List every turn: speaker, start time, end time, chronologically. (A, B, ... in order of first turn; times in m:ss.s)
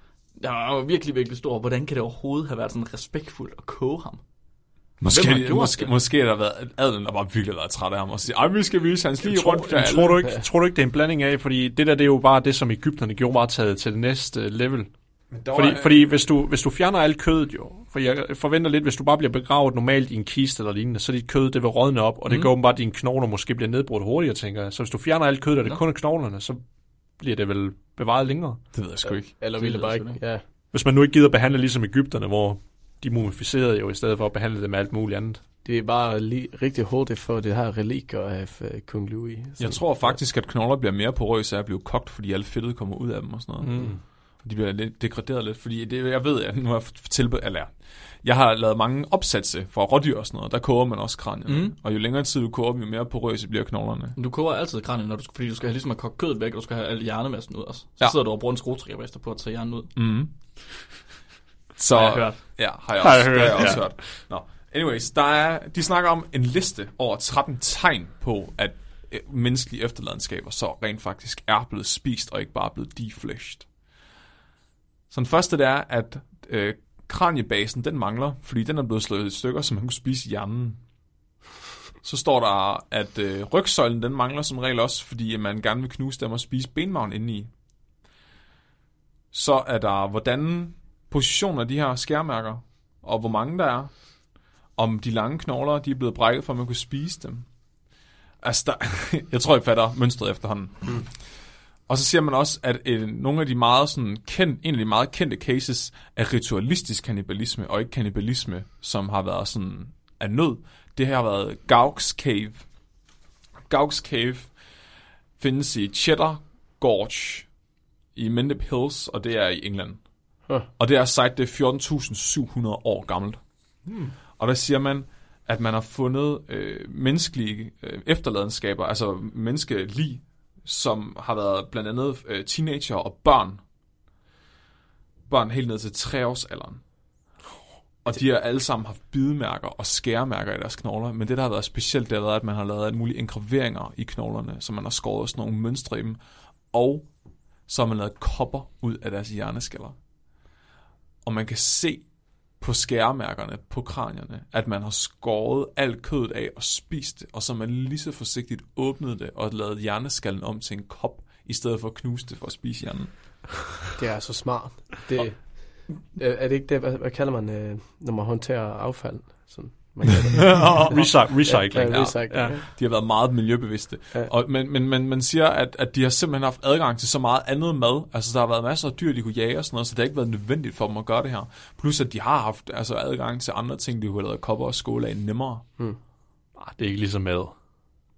0:00.3-0:04.2 A
0:05.0-0:10.3 B
0:05.1-0:05.9 A
0:09.2-0:14.9 C
0:15.3-0:16.0 B
0:15.5-0:26.6 C
0:22.3-0:22.5 A
0:27.2-0:28.6 C
0:28.7-0:29.3 B
0:29.0-0:30.4 D
0:29.6-0:30.2 A
0:30.7-0:35.4 C
0:35.6-0:40.2 D
0:39.6-0:43.8 B
0:43.6-0:44.0 C
0:44.4-0:54.2 B
0:51.5-0:51.7 A
0:54.2-0:59.9 A
0:59.9-1:00.3 B
1:01.8-1:13.7 B
1:01.9-1:02.4 A
1:03.0-1:03.9 C
1:15.1-1:20.8 B
1:22.0-1:27.5 B
1:29.3-1:33.9 B
1:34.8-1:37.4 B
1:38.4-1:41.0 B
1:41.9-1:52.6 B
1:53.7-1:54.5 B
1:55.4-1:57.5 B
1:58.1-2:00.0 B
2:00.8-2:03.4 B
2:03.8-2:04.1 C
2:04.4-2:13.6 B
2:15.3-2:16.8 B
2:18.0-2:26.2 B
2:26.7-2:27.1 B
2:27.7-2:30.0 B
2:31.2-2:32.0 B
2:32.6-2:43.1 B
2:44.0-2:52.6 D
2:50.3-3:05.6 B
2:50.8-2:52.6 C
3:06.6-3:07.5 C